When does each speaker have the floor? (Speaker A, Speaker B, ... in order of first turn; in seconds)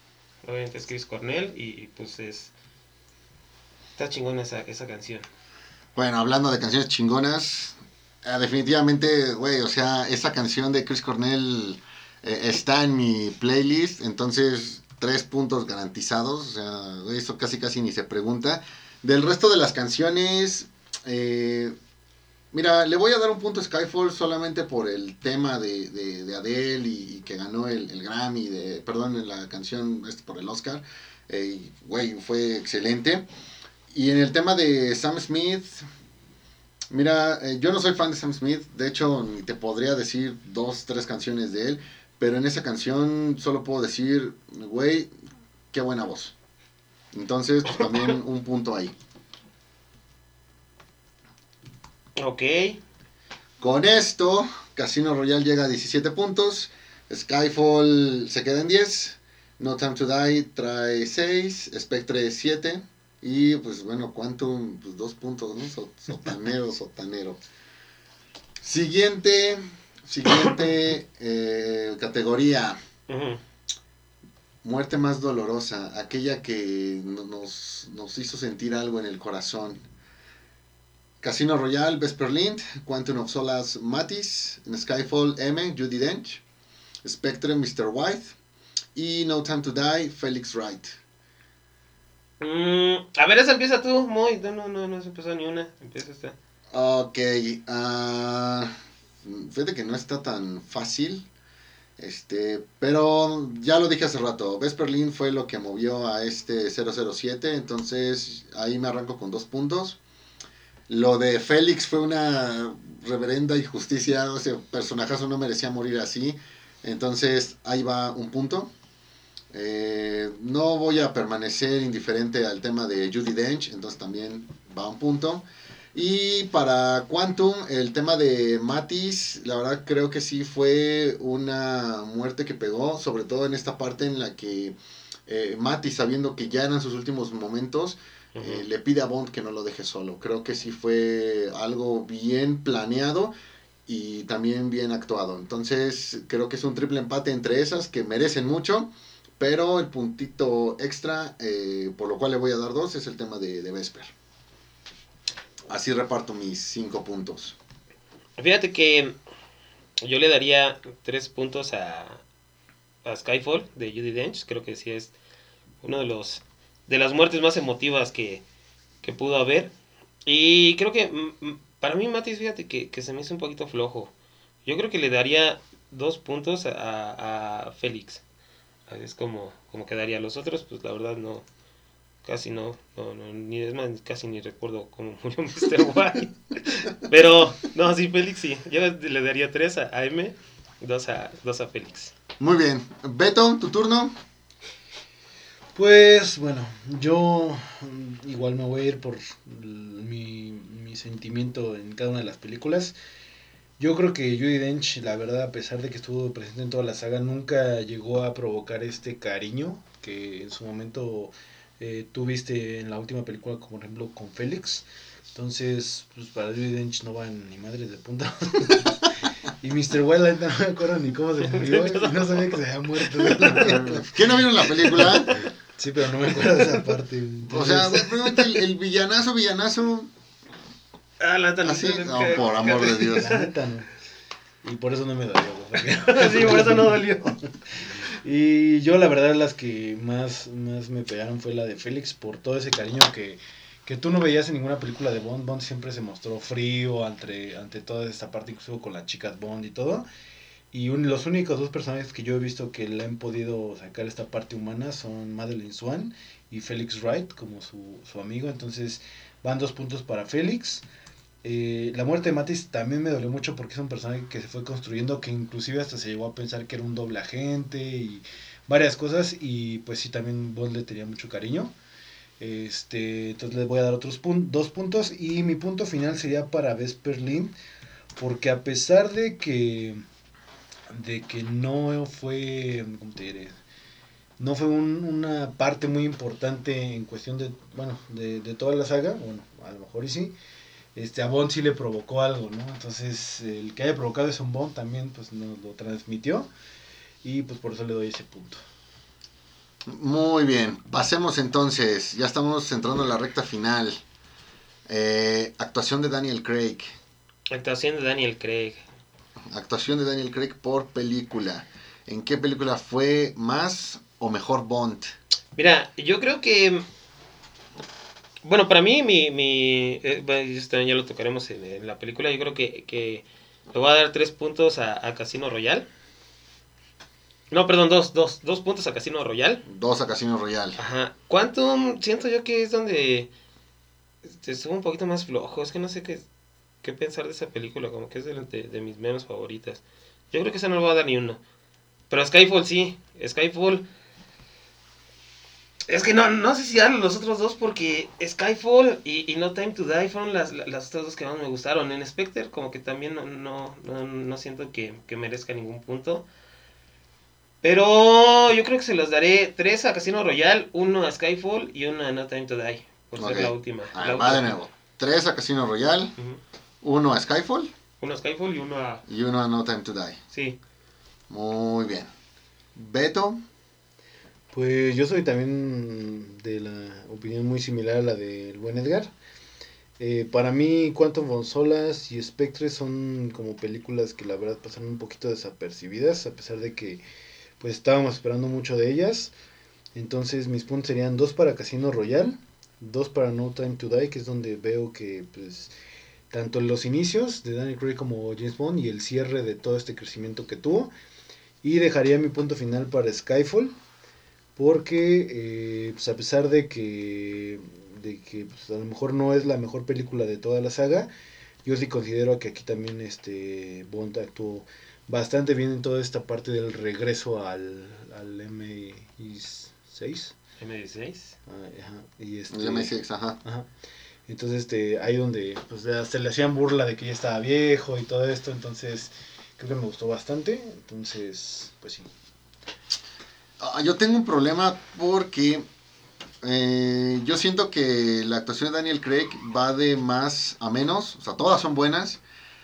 Speaker A: 0.4-2.5, 4.0-5.2, 52.1-52.8, 73.1-73.4, 92.4-96.3, 138.3-138.6, 158.4-159.1, 160.0-162.2, 163.0-165.1, 165.8-168.4, 169.0-169.7, 170.2-174.1, 174.6-178.2, 178.9-181.4, 182.2-192.1, 221.5-222.6, 226.4-226.8, 231.2-233.5, 236.1-237.4, 307.5-308.8, 315.6-316.8, 318.4-325.9, 327.5-329.6, 330.8-333.3, 334.3-336.2, 336.8-341.4, 342.1-343.8, 345.9-356.2, 357.6-364.5, 368.0-369.0, 420.6-421.3
Speaker B: 5.9-21.7, 22.5-33.2, 33.9-35.9, 36.9-45.1, 45.7-46.3, 47.1-48.9, 53.6-67.4, 68.6-72.8, 74.6-79.8, 81.2-86.4, 87.0-88.3, 88.9-90.9, 96.7-101.2, 102.0-110.0, 110.9-118.7, 119.5-134.7, 135.3-143.3, 143.9-154.1, 155.7-157.6, 192.4-194.1, 223.5-225.3, 227.5-230.1, 231.6-233.4, 299.9-304.0, 304.9-306.9, 309.5-315.1, 329.6-330.8, 363.2-366.1, 366.8-367.7, 369.1-370.2, 371.3-372.1, 372.7-373.4, 422.5-423.4, 433.6-435.6, 436.4-442.2
Speaker C: 195.7-202.9, 203.8-224.2, 224.9-228.3, 232.9-233.9, 234.6-250.0, 250.7-260.8, 261.4-271.7, 272.4-277.5, 278.2-280.0, 280.9-283.6, 284.4-290.3, 290.9-296.5, 297.2-298.6, 374.5-379.1, 380.0-387.0, 387.6-389.3, 389.9-395.7, 396.3-400.9, 401.6-403.7, 404.6-411.1, 411.6-420.3, 421.5-423.7, 424.3-432.1